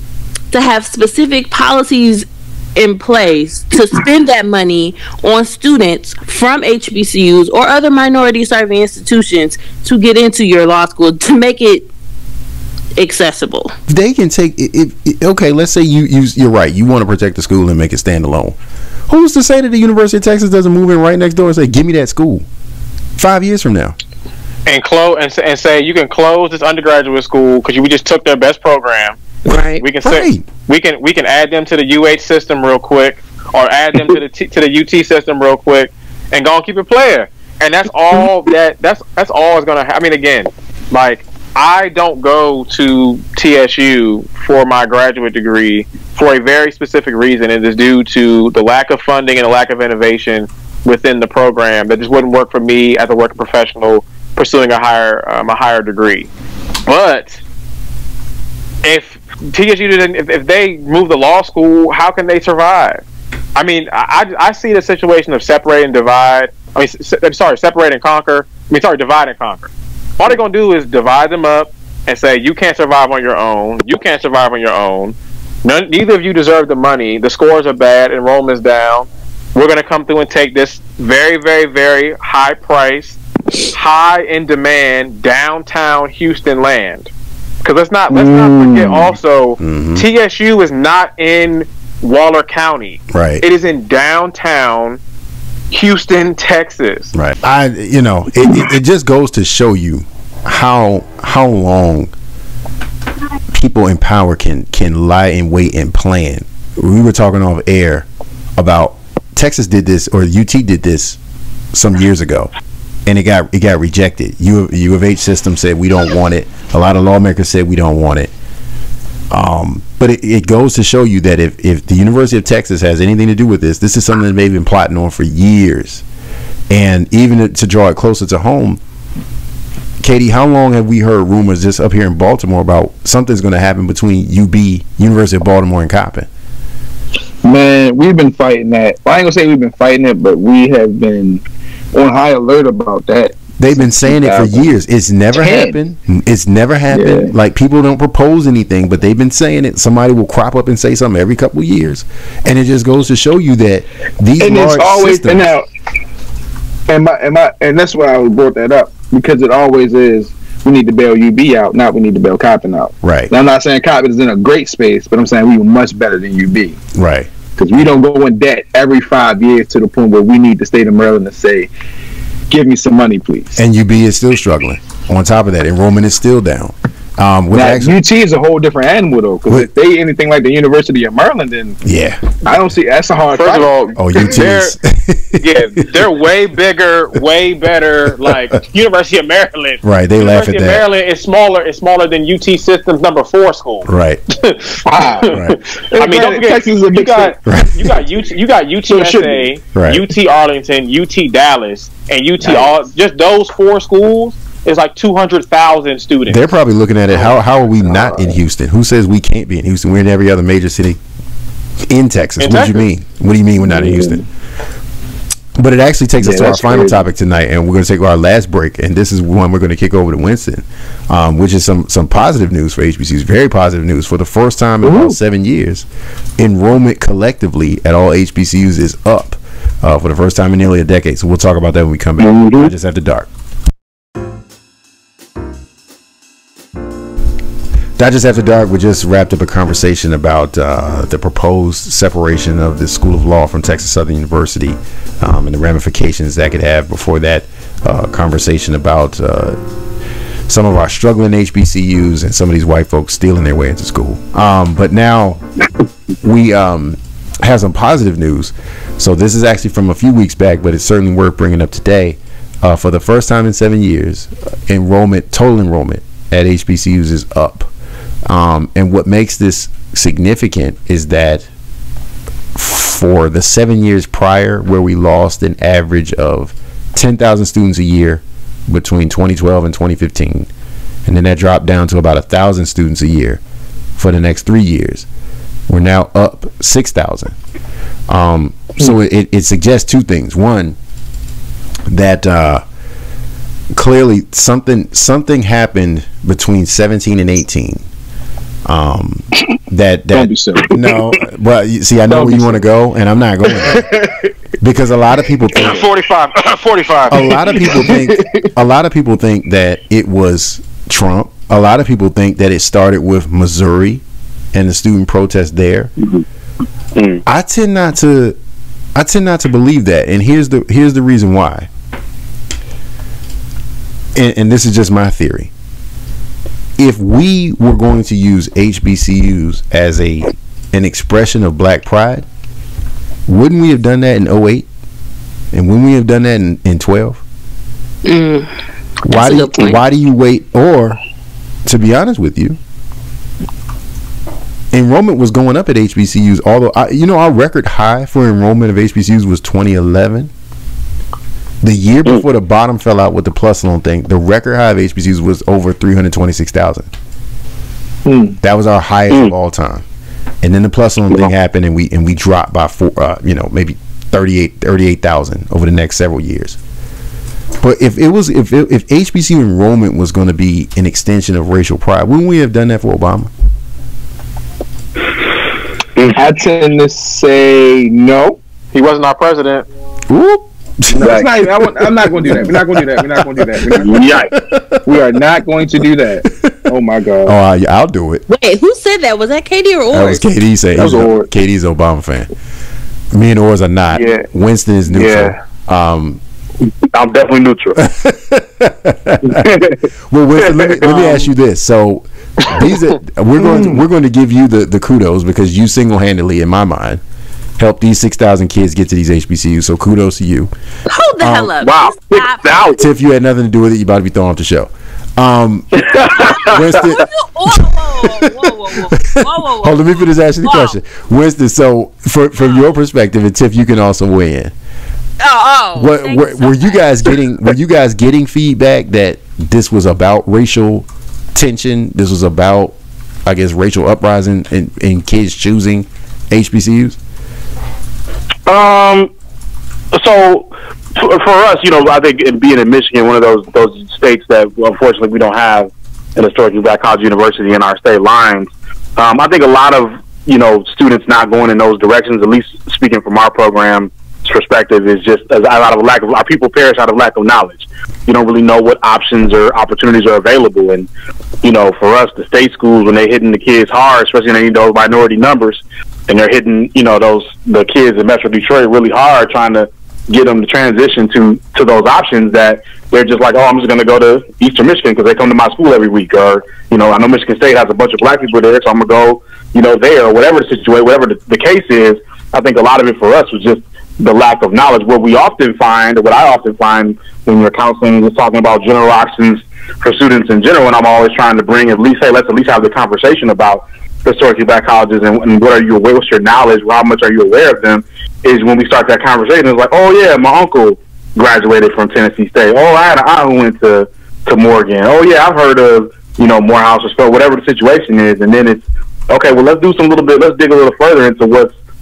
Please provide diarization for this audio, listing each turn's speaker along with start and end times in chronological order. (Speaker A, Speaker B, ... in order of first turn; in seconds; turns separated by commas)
Speaker A: 0.5-11.9, Speaker A: 12.9-13.7, Speaker B: 13.9-18.6, Speaker B: 19.1-22.4, Speaker B: 23.1-23.9, Speaker C: 24.6-56.3, Speaker A: 29.5-29.8, Speaker B: 30.0-30.4, Speaker C: 56.9-57.4, Speaker C: 58.8-63.0, Speaker C: 63.5-87.1, Speaker C: 87.6-95.0, Speaker D: 88.2-89.0, Speaker B: 89.6-90.0, Speaker B: 93.1-93.4, Speaker C: 95.7-97.1, Speaker B: 97.1-102.1, Speaker B: 103.5-108.0, Speaker B: 108.6-111.2, Speaker B: 111.7-112.5, Speaker B: 113.1-118.3, Speaker B: 119.3-126.0, Speaker B: 126.7-128.8, Speaker B: 130.0-136.3, Speaker D: 137.4-144.7, Speaker B: 143.6-155.5, Speaker D: 145.3-145.8, Speaker D: 146.9-147.3, Speaker D: 154.4-155.6, Speaker D: 156.9-166.8, Speaker B: 163.0-163.3, Speaker B: 166.9-167.3, Speaker D: 167.6-171.7, Speaker D: 172.5-173.6, Speaker B: 173.6-177.9, Speaker D: 177.5-181.8, Speaker B: 181.8-182.3, Speaker D: 182.4-184.4, Speaker C: 183.3-184.7, Speaker B: 183.9-185.8, Speaker C: 185.4-206.4, Speaker B: 189.8-190.8, Speaker B: 193.8-194.2, Speaker D: 194.8-195.4, Speaker B: 195.3-195.6, Speaker D: 195.9-197.3, Speaker B: 197.4-197.9, Speaker D: 198.9-199.4, Speaker B: 199.7-200.0, Speaker D: 202.4-202.7, Speaker B: 206.3-211.0, Speaker D: 207.9-208.3, Speaker B: 211.9-214.2, Speaker C: 212.4-212.8, Speaker D: 213.7-214.2, Speaker B: 215.6-225.8, Speaker D: 216.2-217.0, Speaker D: 224.8-225.2, Speaker B: 226.4-233.3, Speaker E: 232.2-232.7, Speaker B: 238.0-249.6, Speaker B: 250.5-255.4, Speaker B: 256.2-267.7, Speaker B: 268.3-271.4, Speaker B: 272.5-280.5, Speaker B: 281.1-283.4, Speaker B: 284.0-285.1, Speaker B: 285.7-287.3, Speaker B: 288.1-290.8, Speaker B: 291.9-292.6, Speaker B: 293.7-297.8, Speaker B: 298.6-303.9, Speaker D: 300.1-300.8, Speaker D: 302.1-302.6, Speaker D: 303.6-304.2, Speaker B: 304.6-305.8, Speaker C: 305.5-307.6, Speaker B: 307.1-314.0, Speaker D: 307.6-308.5, Speaker B: 314.5-315.9, Speaker E: 316.9-317.2, Speaker B: 317.2-318.4, Speaker B: 318.9-321.7, Speaker B: 324.1-325.5, Speaker B: 326.8-332.2, Speaker B: 333.3-334.7, Speaker B: 335.5-337.2, Speaker A: 338.0-338.5, Speaker B: 339.1-341.0, Speaker A: 339.1-339.8, Speaker B: 341.6-342.6, Speaker B: 344.7-350.3, Speaker B: 351.6-356.9, Speaker D: 358.1-358.3, Speaker B: 358.4-359.8, Speaker B: 360.4-366.6, Speaker B: 367.6-373.3, Speaker D: 376.1-378.4, Speaker C: 378.7-379.6, Speaker B: 380.1-384.8, Speaker D: 380.9-384.1, Speaker E: 381.0-381.3, Speaker E: 383.8-384.3, Speaker D: 384.8-387.3, Speaker B: 387.2-388.2, Speaker A: 388.3-390.2, Speaker B: 389.9-392.3, Speaker D: 390.8-391.3, Speaker B: 393.1-396.2, Speaker D: 393.9-394.2, Speaker D: 394.9-395.3, Speaker E: 396.9-397.8, Speaker B: 397.8-399.6, Speaker E: 399.2-399.8, Speaker B: 400.1-407.0, Speaker E: 400.8-401.1, Speaker D: 403.4-403.8, Speaker B: 407.6-410.5, Speaker A: 410.9-412.7, Speaker B: 411.2-411.5, Speaker E: 411.6-412.8, Speaker B: 412.8-424.5, Speaker E: 415.8-416.7, Speaker A: 416.1-420.8, Speaker A: 425.2-426.8, Speaker B: 425.8-437.0, Speaker E: 438.5-439.1, Speaker E: 439.9-460.9, Speaker E: 461.4-511.5